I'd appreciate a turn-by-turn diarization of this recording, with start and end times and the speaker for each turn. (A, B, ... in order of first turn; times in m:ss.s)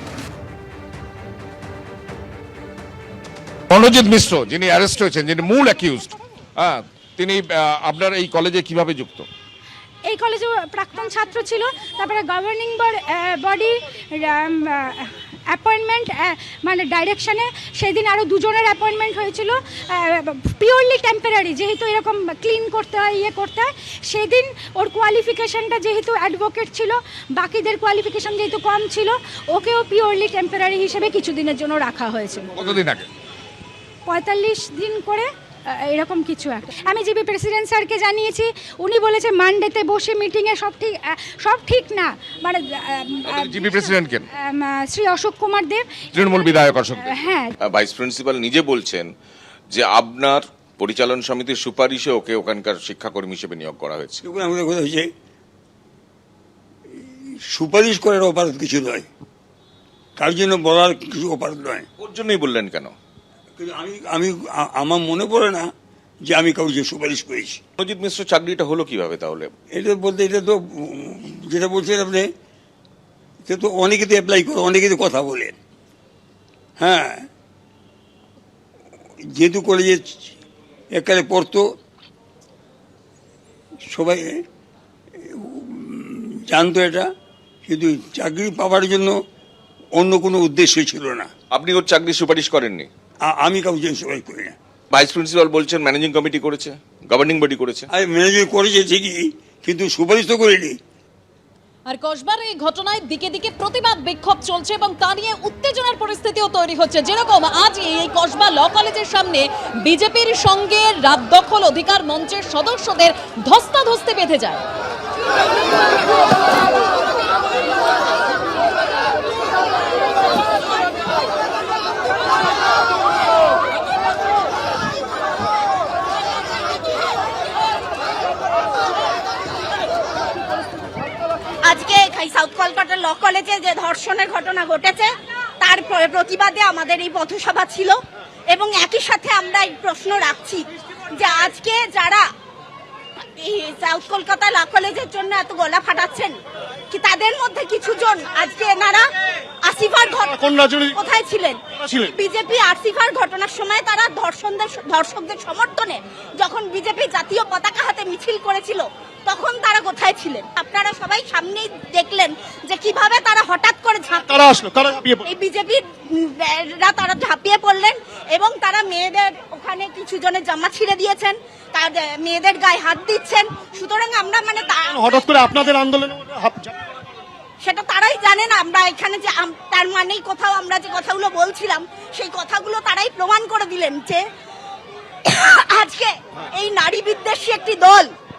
0:03.7-0:09.3 A
0:10.0-0:32.8 B
0:32.6-0:33.1 A
0:34.1-0:47.5 B
0:43.2-0:43.5 C
0:43.4-0:44.2 A
0:46.1-0:47.1 A
0:47.7-0:49.1 C
0:47.7-0:48.7 D
0:49.7-0:54.2 D
0:51.0-0:53.9 C
0:54.2-0:55.1 E
0:57.0-0:59.0 E
1:00.2-1:01.8 E
1:02.0-1:02.9 C
1:03.6-1:05.7 E
1:06.3-1:07.6 E
1:07.8-1:09.5 C
1:09.7-1:12.3 E
1:13.4-1:15.5 E
1:16.8-1:17.3 E
1:19.3-1:20.2 E
1:20.9-1:21.6 E
1:23.9-1:24.4 E
1:25.2-1:27.1 E
1:27.6-1:29.2 E
1:29.9-1:31.3 E
1:31.5-1:32.8 D
1:31.7-1:32.8 C
1:33.2-1:34.5 E
1:34.9-1:37.8 D
1:35.2-1:36.7 C
1:37.9-1:40.8 E
1:41.8-1:54.6 D
2:11.6-2:18.0 F
2:18.5-2:22.3 F
2:23.2-2:26.4 F
2:26.9-2:29.1 F
2:29.6-2:55.8 F
2:30.4-2:30.9 G
2:44.3-2:45.2 G
2:55.1-2:56.7 G
2:57.6-3:04.2 F
3:05.2-3:08.1 F